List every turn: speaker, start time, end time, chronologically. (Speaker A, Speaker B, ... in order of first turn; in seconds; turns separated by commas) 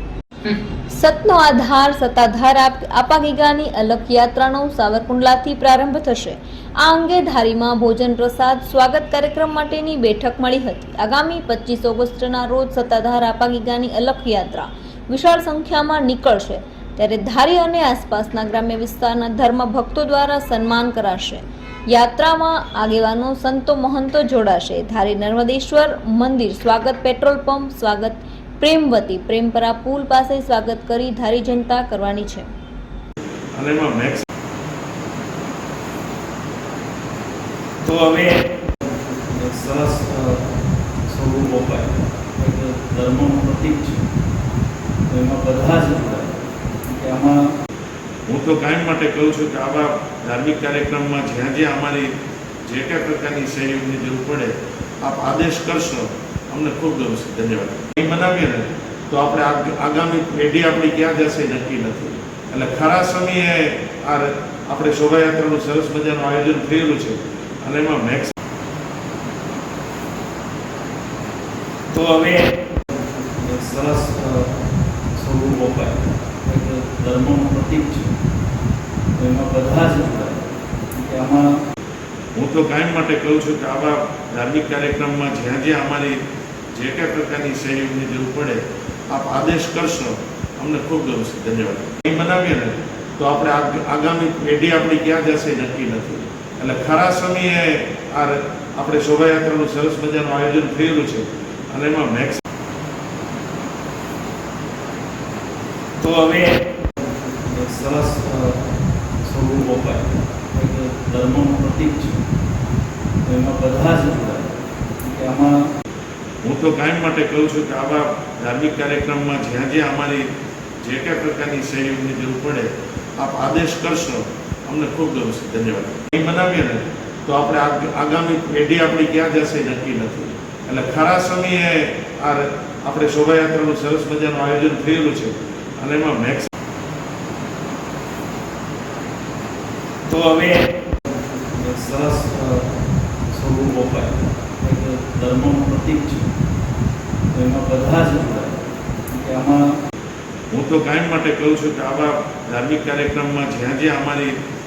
Speaker A: 0.5-32.5, Speaker B: 33.5-34.2, Speaker C: 37.9-40.4, Speaker C: 41.1-44.0, Speaker C: 45.1-46.4, Speaker C: 46.9-47.4, Speaker B: 48.3-52.1, Speaker B: 52.7-68.3, Speaker C: 71.9-74.5, Speaker C: 75.2-78.1, Speaker C: 79.2-80.4, Speaker C: 81.0-81.5, Speaker B: 82.4-86.2, Speaker B: 86.8-102.4, Speaker C: 106.0-108.6, Speaker C: 109.2-112.2, Speaker C: 113.3-114.5, Speaker C: 115.0-115.5, Speaker B: 116.4-120.2, Speaker B: 120.8-136.5, Speaker C: 140.1-140.6, Speaker C: 141.1-142.7, Speaker C: 143.3-146.3, Speaker C: 147.3-148.6, Speaker C: 149.1-149.6, Speaker B: 150.5-154.3